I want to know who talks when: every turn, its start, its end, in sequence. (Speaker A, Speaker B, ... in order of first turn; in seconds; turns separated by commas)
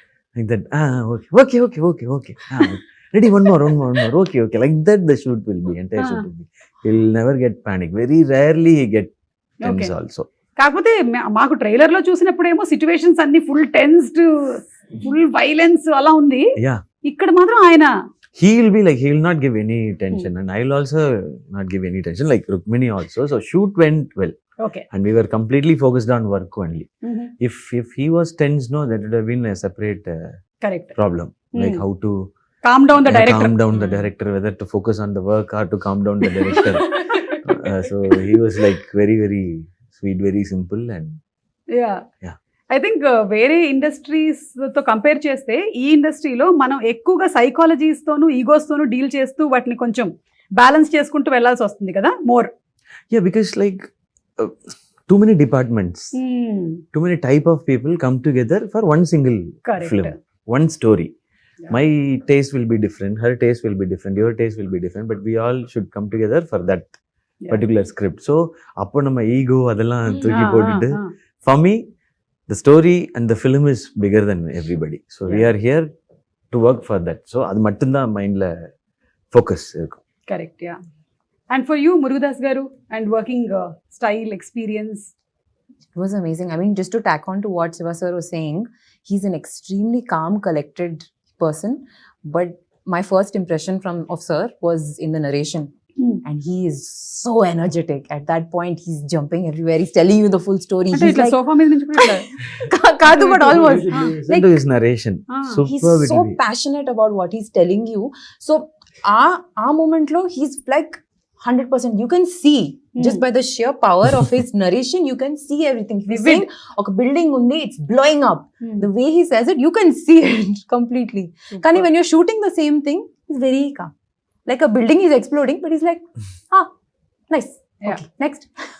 Speaker A: 0.3-10.3, Speaker B: 6.0-6.3, Speaker B: 9.6-9.9, Speaker B: 10.6-16.5, Speaker A: 16.6-16.8, Speaker B: 17.0-17.9, Speaker A: 18.4-24.4, Speaker B: 24.6-24.8, Speaker A: 24.9-26.9, Speaker B: 27.0-27.3, Speaker A: 27.4-30.4, Speaker B: 30.6-30.9, Speaker A: 30.9-32.3, Speaker B: 31.5-31.8, Speaker B: 32.6-34.1, Speaker A: 33.0-41.2, Speaker B: 36.6-37.4, Speaker B: 41.7-42.0, Speaker B: 42.7-52.5, Speaker A: 53.1-56.1, Speaker B: 56.1-56.8, Speaker A: 56.9-61.1, Speaker B: 59.6-60.1, Speaker A: 61.7-67.0, Speaker A: 67.5-71.8, Speaker B: 70.1-71.1, Speaker A: 72.5-75.9, Speaker A: 76.5-78.7, Speaker A: 79.3-80.0, Speaker B: 80.3-80.8, Speaker B: 81.5-85.1, Speaker C: 85.9-95.7, Speaker C: 96.2-101.4, Speaker B: 100.9-102.3, Speaker C: 101.9-104.6, Speaker B: 103.1-104.1, Speaker A: 103.1-106.4, Speaker B: 105.3-105.6, Speaker C: 105.7-123.9, Speaker B: 113.0-113.2, Speaker B: 116.1-116.4, Speaker B: 118.6-118.9, Speaker B: 121.5-121.8, Speaker C: 124.5-126.7, Speaker C: 127.3-128.5